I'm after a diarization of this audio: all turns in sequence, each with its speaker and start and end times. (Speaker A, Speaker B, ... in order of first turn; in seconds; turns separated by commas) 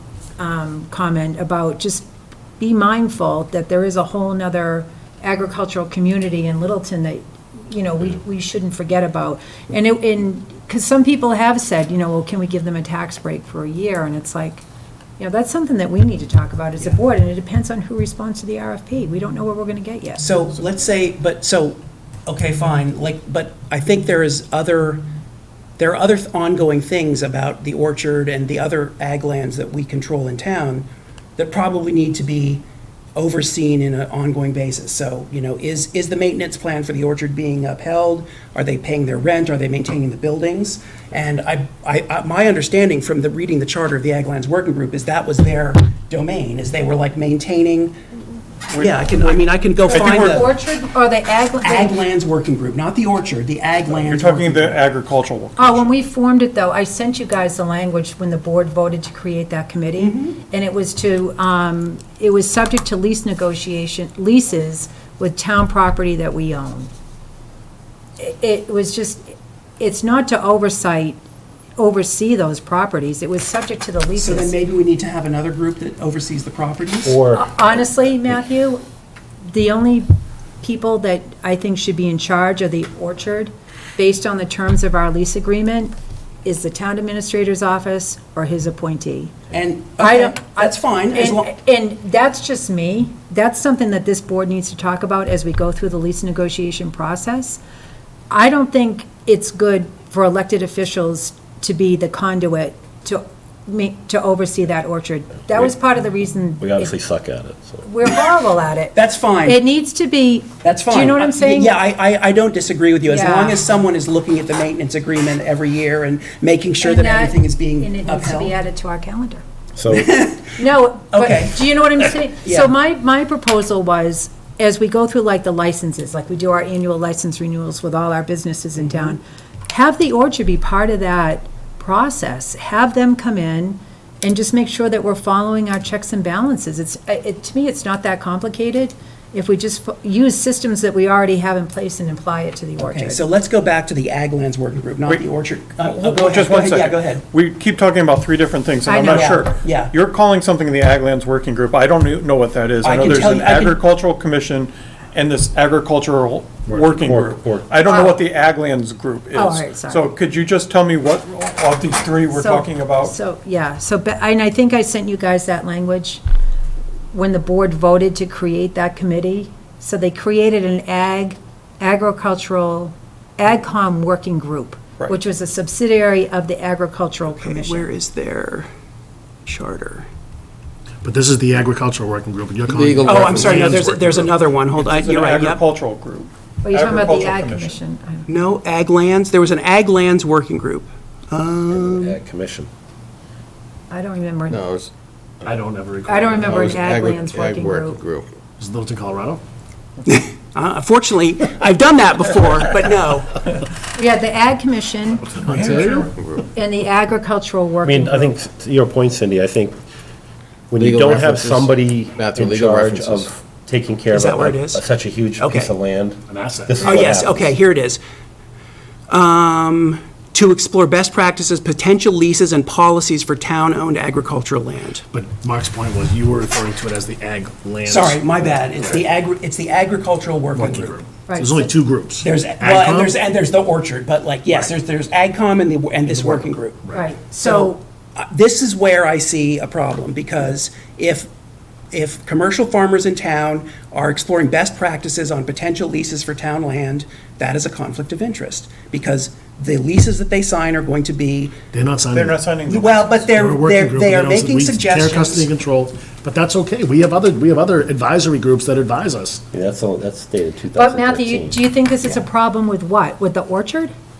Speaker A: 0.4-2.1, Speaker A: 2.6-14.6, Speaker A: 15.2-20.2, Speaker B: 20.2-25.0, Speaker B: 25.8-32.6, Speaker B: 33.1-48.0, Speaker C: 48.7-50.5, Speaker B: 48.8-50.5, Speaker A: 49.9-51.9, Speaker B: 51.6-54.8, Speaker C: 54.0-55.9, Speaker A: 55.6-66.9, Speaker B: 60.0-60.4, Speaker A: 68.2-71.2, Speaker A: 71.8-74.5, Speaker B: 74.2-77.2, Speaker D: 77.0-77.5, Speaker A: 77.3-78.8, Speaker A: 79.5-80.1, Speaker A: 80.6-85.9, Speaker A: 86.4-89.3, Speaker B: 89.5-91.5, Speaker A: 90.0-97.6, Speaker A: 98.3-106.9, Speaker D: 106.6-107.8, Speaker A: 107.8-111.8, Speaker B: 108.9-109.6, Speaker B: 110.6-118.6, Speaker A: 113.0-113.6, Speaker A: 116.8-119.4, Speaker D: 119.8-120.1, Speaker B: 119.9-120.5, Speaker A: 120.6-143.2, Speaker B: 121.1-122.7, Speaker B: 142.8-147.2, Speaker C: 145.9-163.1, Speaker A: 148.9-149.4, Speaker B: 149.0-149.9, Speaker B: 152.8-153.8, Speaker D: 156.7-157.7, Speaker A: 157.9-158.1, Speaker A: 159.3-160.1, Speaker A: 162.3-166.2, Speaker A: 167.1-177.9, Speaker B: 177.4-178.7, Speaker B: 179.4-180.1, Speaker E: 181.0-184.3, Speaker F: 182.7-183.5, Speaker B: 183.0-185.6, Speaker C: 184.8-187.8, Speaker A: 186.6-188.3, Speaker B: 188.3-192.2, Speaker D: 191.7-192.7, Speaker A: 193.9-194.7, Speaker F: 194.6-194.9, Speaker E: 195.4-196.9, Speaker A: 196.1-198.0, Speaker F: 196.5-198.3, Speaker E: 198.6-199.4, Speaker B: 200.1-203.4, Speaker A: 204.0-208.3, Speaker E: 205.3-206.1, Speaker F: 205.5-206.4, Speaker D: 207.8-209.8, Speaker D: 210.7-217.5, Speaker F: 210.8-213.3, Speaker B: 214.1-214.8, Speaker B: 215.4-215.7, Speaker E: 216.3-217.1, Speaker B: 216.8-218.0, Speaker B: 219.1-225.0, Speaker E: 225.1-229.0, Speaker B: 227.9-230.9, Speaker E: 230.5-233.2, Speaker A: 231.3-231.7, Speaker B: 232.2-236.8, Speaker E: 236.1-237.1, Speaker A: 236.9-237.8, Speaker B: 237.4-241.3, Speaker B: 241.9-251.6, Speaker E: 251.7-252.4, Speaker C: 252.1-253.2, Speaker B: 252.7-255.5, Speaker E: 253.3-259.4, Speaker D: 259.5-261.6, Speaker A: 260.7-263.9